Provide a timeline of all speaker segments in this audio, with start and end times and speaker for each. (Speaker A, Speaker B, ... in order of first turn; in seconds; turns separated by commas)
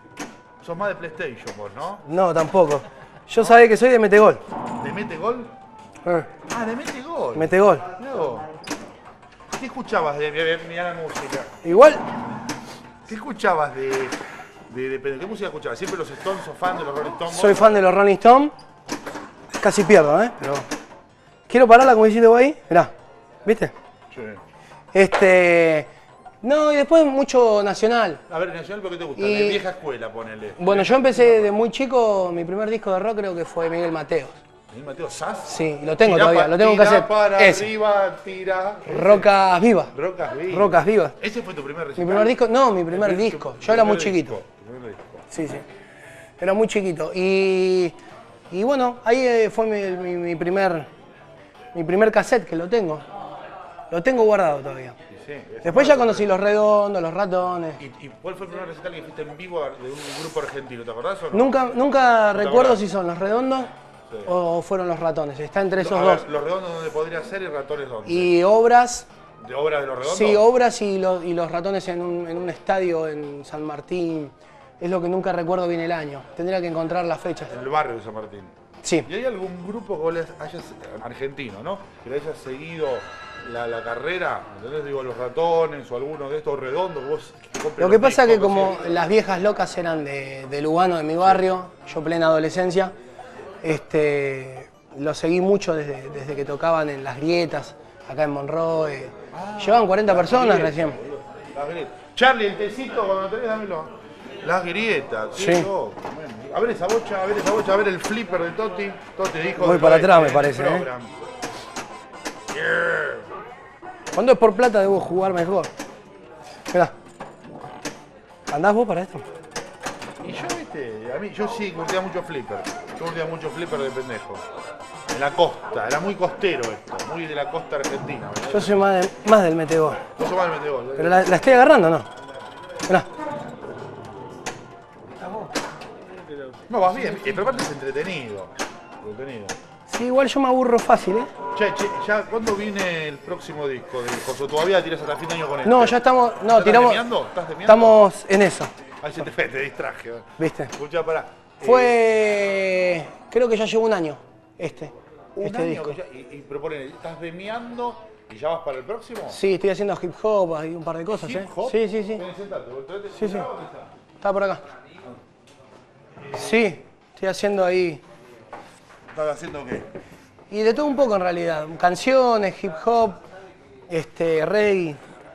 Speaker A: 0.6-2.0, Speaker B: 2.0-4.4, Speaker A: 4.8-5.5, Speaker B: 6.0-6.3, Speaker A: 6.5-8.5, Speaker B: 7.3-7.9, Speaker A: 9.5-11.6, Speaker B: 11.6-12.0, Speaker A: 13.1-17.8, Speaker B: 17.3-18.5, Speaker B: 19.6-20.6, Speaker B: 21.5-22.9, Speaker B: 23.4-23.7, Speaker A: 24.1-24.4, Speaker B: 24.9-25.9, Speaker B: 26.4-28.2, Speaker A: 28.3-31.4, Speaker B: 29.2-29.6, Speaker B: 30.6-34.4, Speaker A: 34.7-39.3, Speaker B: 35.5-37.7, Speaker B: 38.9-39.9, Speaker A: 39.9-42.4, Speaker B: 40.5-41.1, Speaker B: 42.0-44.4, Speaker A: 42.9-45.3, Speaker B: 45.3-45.6, Speaker B: 46.4-47.9, Speaker B: 48.5-50.9, Speaker B: 51.7-53.0, Speaker B: 53.9-54.9, Speaker A: 55.1-56.3, Speaker B: 55.6-57.8, Speaker A: 57.8-61.5, Speaker B: 61.3-63.7, Speaker A: 62.3-62.8, Speaker B: 64.2-66.2, Speaker A: 65.8-68.3, Speaker B: 68.0-69.1, Speaker A: 69.4-70.4, Speaker B: 70.0-77.5, Speaker A: 77.5-78.5, Speaker A: 79.0-88.8, Speaker B: 87.8-92.9, Speaker B: 93.6-101.0, Speaker A: 99.3-111.1, Speaker B: 105.3-105.7, Speaker B: 109.6-110.9, Speaker A: 112.5-113.3, Speaker B: 114.1-115.7, Speaker B: 118.5-119.2, Speaker A: 120.2-124.4, Speaker A: 125.1-128.8, Speaker B: 128.5-130.0, Speaker A: 130.0-131.4, Speaker B: 130.9-132.1, Speaker A: 136.7-139.5, Speaker B: 139.9-141.3, Speaker A: 141.5-148.0, Speaker B: 145.6-147.1, Speaker B: 147.7-148.7, Speaker A: 149.0-151.9, Speaker B: 150.4-150.7, Speaker B: 151.6-156.0, Speaker A: 155.4-159.4, Speaker B: 159.3-162.2, Speaker A: 161.1-163.9, Speaker B: 163.1-163.5, Speaker B: 164.2-164.6, Speaker B: 166.3-168.0, Speaker A: 169.1-169.9, Speaker B: 170.5-173.2, Speaker B: 173.9-175.0